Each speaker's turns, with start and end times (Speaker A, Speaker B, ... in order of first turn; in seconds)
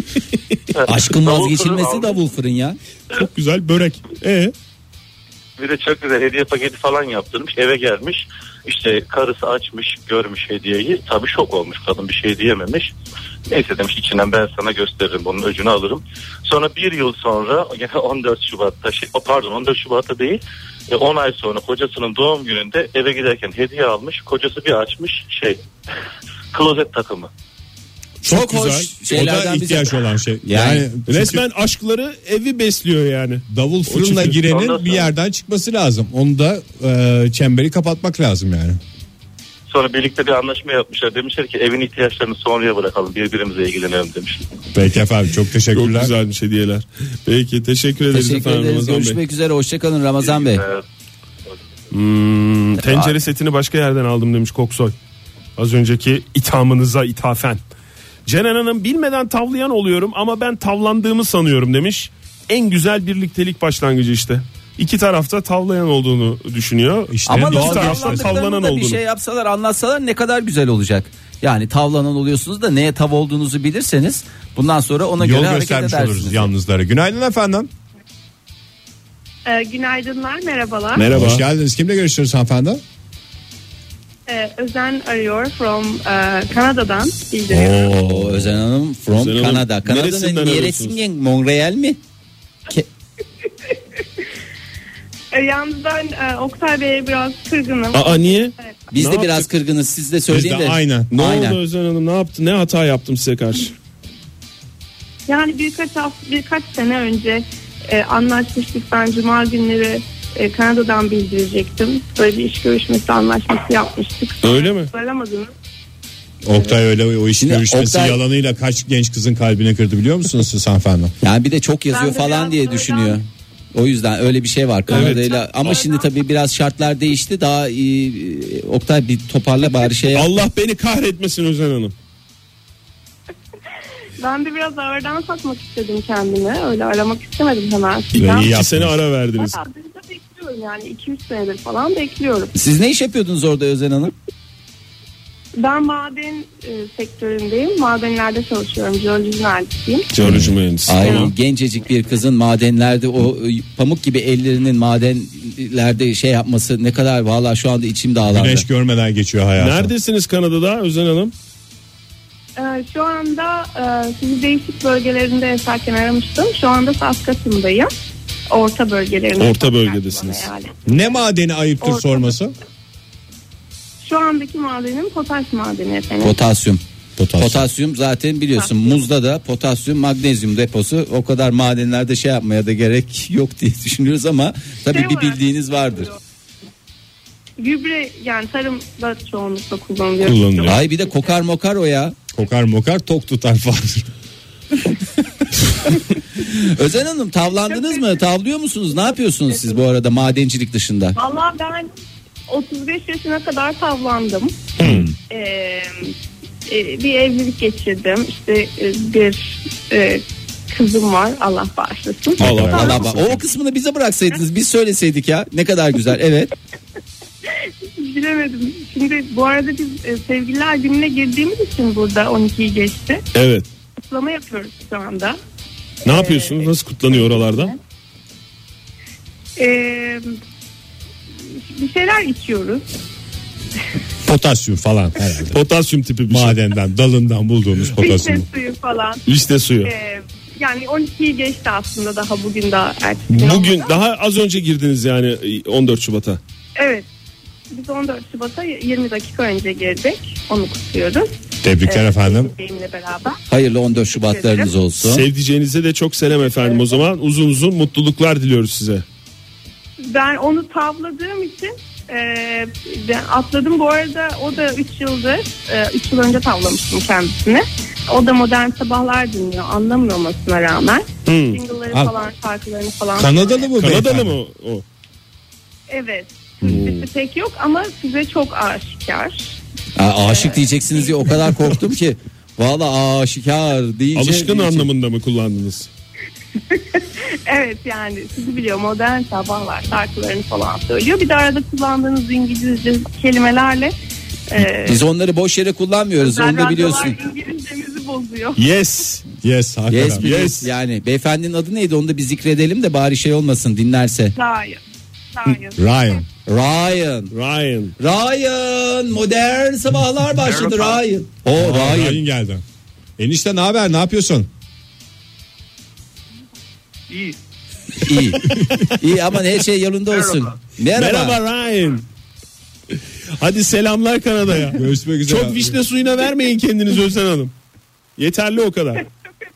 Speaker A: 0.8-2.2, 5.6-12.9, 13.5-25.6, 26.5-27.3, 34.4-35.1, 39.7-44.5, 50.2-50.8
Speaker B: 0.9-2.8, 28.3-30.9, 48.1-50.6, 52.8-53.1, 67.3-76.5, 88.0-92.0, 98.9-101.6, 117.4-118.2, 121.2-130.3, 142.6-144.1, 150.9-158.7, 176.2-176.8, 177.4-186.1, 190.7-192.2, 196.4-201.2, 212.4-216.5, 253.5-255.3, 280.0-284.9, 294.8-297.2, 299.9-304.3, 306.5-307.3, 308.0-312.2, 318.0-321.4
Speaker C: 3.1-4.5, 28.2-28.9, 31.1-34.4, 45.7-49.2, 51.9-55.0, 55.6-57.6, 58.3-69.0, 81.0-81.4, 89.1-91.0, 97.9-99.5, 101.1-103.7, 114.4-114.9, 124.9-125.3, 130.1-131.9, 138.2-139.6, 150.1-151.3, 159.6-161.3, 169.4-170.5, 190.2-190.8, 204.8-205.1, 212.4-213.4, 223.3-223.7, 226.1-227.7, 235.5-236.6, 239.3-239.9, 243.3-246.4, 255.0-259.1, 271.3-271.6, 273.8-274.8, 276.6-277.1, 284.1-285.9, 298.6-299.2, 300.1-300.7, 307.3-307.9, 320.9-322.0, 323.4-327.5, 328.2-329.0
Speaker D: 29.1-31.4, 33.5-38.8, 44.7-46.1, 67.1-68.4, 75.2-77.7, 81.1-82.8, 87.5-88.5, 100.3-101.1, 116.4-121.1, 138.2-139.0, 150.2-150.6, 158.3-159.9, 170.9-172.5, 177.2-177.6, 192.3-194.1, 204.8-205.1, 212.4-213.3, 234.2-235.6, 236.3-238.5, 251.6-252.5, 273.2-274.4, 299.4-300.3, 305.8-306.3, 311.6-312.6, 313.2-314.5, 324.7-325.8
Speaker E: 79.5-81.1, 84.3-87.9, 95.3-98.9, 105.3-115.5, 121.9-123.2, 125.1-126.1, 134.2-138.6, 139.3-142.5, 145.6-150.1, 162.6-167.9, 168.5-170.8, 171.8-172.3, 174.0-176.4, 178.6-178.9, 184.9-186.1, 187.6-190.8, 197.7-198.1, 201.2-201.9, 202.5-204.7, 205.3-206.1, 206.7-213.0, 218.0-223.2, 224.0-225.4, 226.1-227.8, 229.6-230.4, 231.6-232.8, 238.0-239.2, 239.8-244.0, 246.8-247.1, 247.7-251.3, 251.8-253.4, 254.2-254.7, 256.6-257.0, 260.0-273.8, 275.9-279.6, 280.2-281.4, 286.7-293.9, 294.5-295.0, 296.2-298.6, 304.4-304.8, 305.3-306.2